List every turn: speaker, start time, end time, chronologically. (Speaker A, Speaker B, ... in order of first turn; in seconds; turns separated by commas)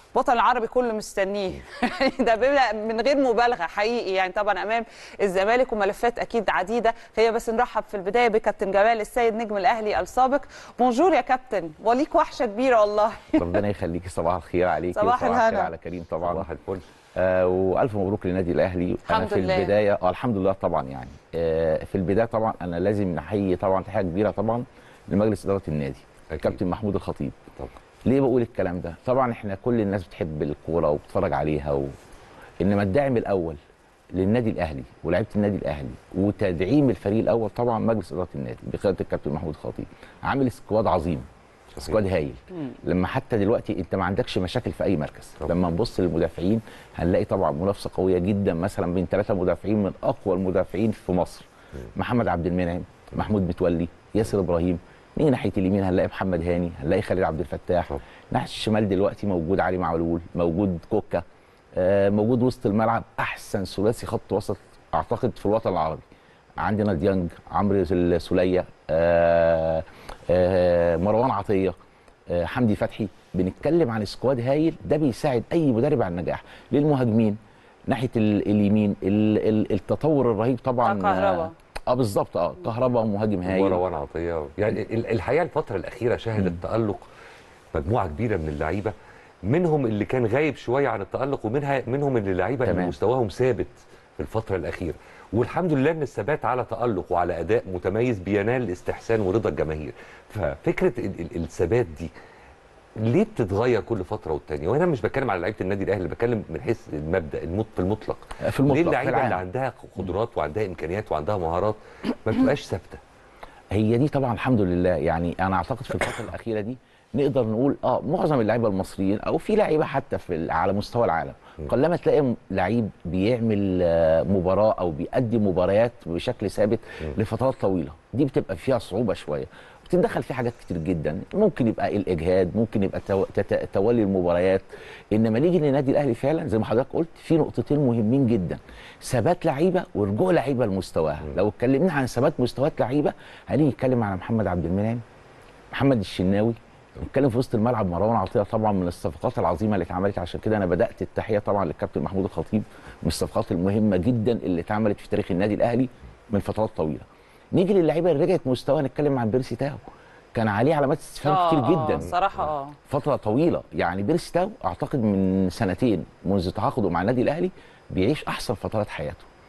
Speaker A: 0.1-13.6, Speaker B: 13.3-16.4, Speaker A: 14.9-15.7, Speaker C: 16.2-16.8, Speaker B: 17.1-27.4, Speaker A: 19.1-19.7, Speaker C: 26.3-26.6, Speaker B: 28.1-31.9, Speaker B: 32.6-33.6, Speaker B: 34.1-41.3, Speaker B: 41.8-66.0, Speaker B: 66.6-71.8, Speaker B: 72.3-77.4, Speaker B: 77.9-83.8, Speaker A: 80.8-81.5, Speaker C: 83.5-87.0, Speaker C: 87.7-88.9, Speaker C: 89.5-102.1, Speaker B: 92.6-93.0, Speaker C: 103.0-113.0, Speaker B: 108.4-109.4, Speaker B: 113.7-145.0, Speaker B: 145.7-159.8, Speaker B: 160.3-162.1, Speaker A: 161.2-162.8, Speaker B: 162.9-169.3